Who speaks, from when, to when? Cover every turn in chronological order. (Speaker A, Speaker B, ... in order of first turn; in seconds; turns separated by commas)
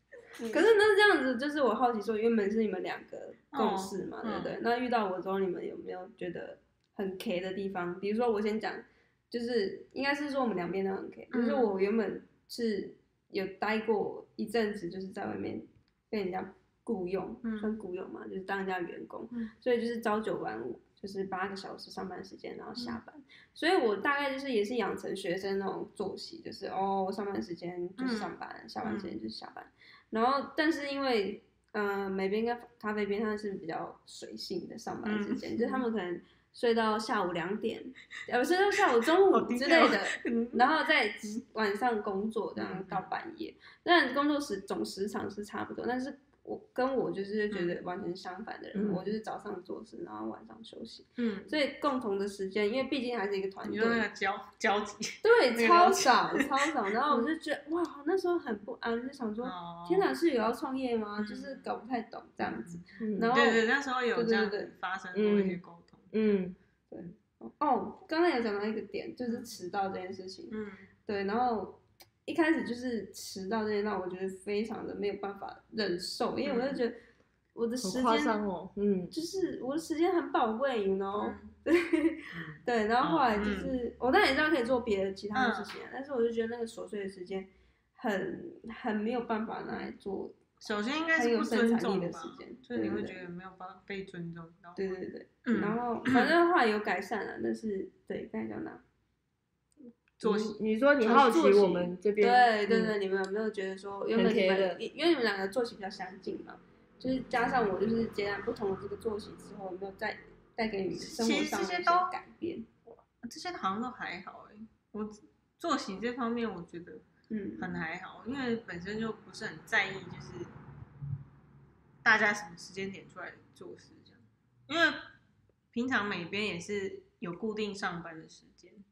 Speaker A: 0.4-0.7, Speaker B: 0.5-54.0, Speaker A: 3.5-4.6, Speaker A: 11.3-11.7, Speaker A: 17.4-17.8, Speaker A: 28.0-29.2, Speaker A: 35.0-35.9, Speaker A: 39.3-40.7, Speaker A: 42.6-43.1, Speaker A: 47.5-47.8, Speaker C: 48.8-49.1, Speaker A: 51.2-51.5, Speaker A: 53.6-56.5, Speaker B: 55.2-64.7, Speaker A: 59.4-60.1, Speaker A: 61.2-61.8, Speaker A: 62.4-66.1, Speaker C: 63.0-63.3, Speaker C: 65.1-66.6, Speaker B: 66.9-77.0, Speaker A: 70.5-70.9, Speaker A: 76.4-76.8, Speaker B: 77.5-78.4, Speaker C: 77.8-79.1, Speaker B: 79.1-90.6, Speaker A: 81.2-81.5, Speaker A: 82.3-83.7, Speaker A: 85.3-85.8, Speaker A: 90.6-96.3, Speaker B: 91.1-93.2, Speaker B: 94.8-98.8, Speaker A: 100.2-100.6, Speaker C: 100.2-103.0, Speaker B: 101.0-112.7, Speaker C: 104.2-104.8, Speaker A: 110.9-112.1, Speaker A: 113.2-117.0, Speaker B: 117.3-117.8, Speaker A: 117.6-120.5, Speaker A: 122.0-125.0, Speaker A: 125.7-128.8